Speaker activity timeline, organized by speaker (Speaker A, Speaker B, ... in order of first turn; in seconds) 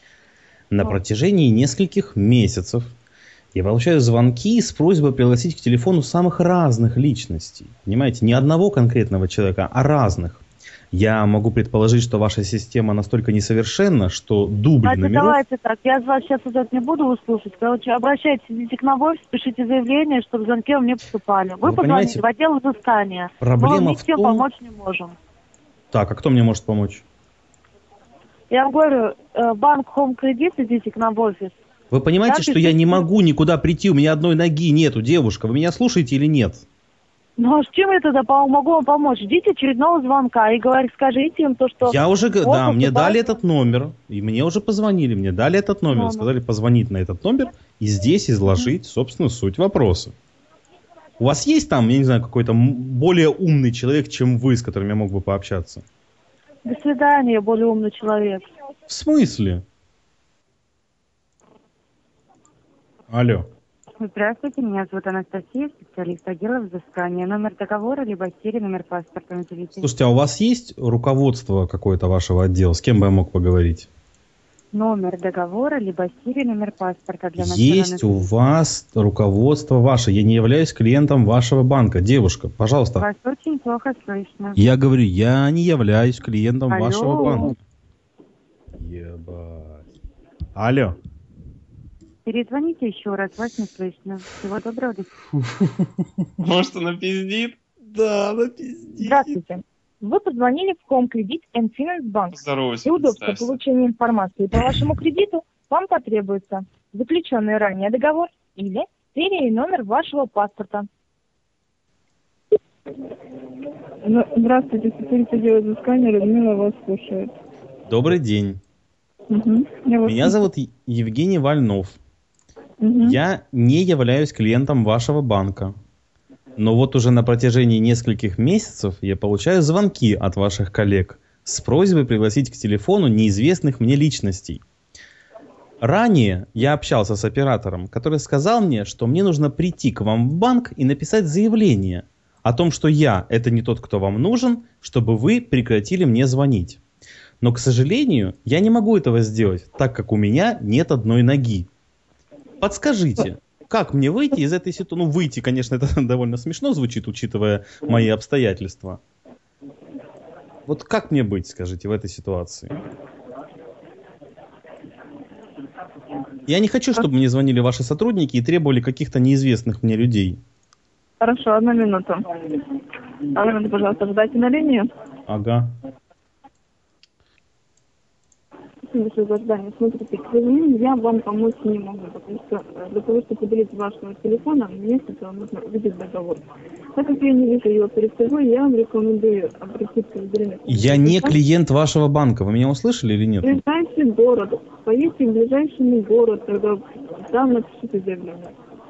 Speaker A: 0.7-2.9, 3.5-15.4, 21.6-22.2, 23.4-24.4, 25.9-27.0, 31.9-36.6, 41.8-50.1, 51.2-55.8, 58.9-59.6, 63.1-63.5, 69.8-73.9, 77.4-83.1, 84.5-87.5, 88.7-89.9, 90.5-91.0, 97.9-99.2, 117.9-118.6, 120.0-122.0, 123.0-125.7, 126.6-134.6, 135.8-146.8, 147.4-151.7, 152.6-159.0, 160.7-162.8, 166.5-170.4, 175.3-175.7, 190.7-193.6
Speaker B: 14.8-25.1, 28.5-31.6, 32.2-33.0, 37.4-43.2, 45.9-46.3, 56.6-58.5
Speaker C: 64.0-69.9, 74.7-78.0, 83.0-84.6, 86.7-87.5, 92.2-95.1
Speaker D: 96.4-97.6, 102.3-103.6
Speaker E: 99.0-110.9
Speaker F: 114.0-117.3, 119.3-120.4, 122.8-123.2, 171.2-172.2, 173.3-174.9, 178.9-186.4, 186.9-191.4, 193.4-198.5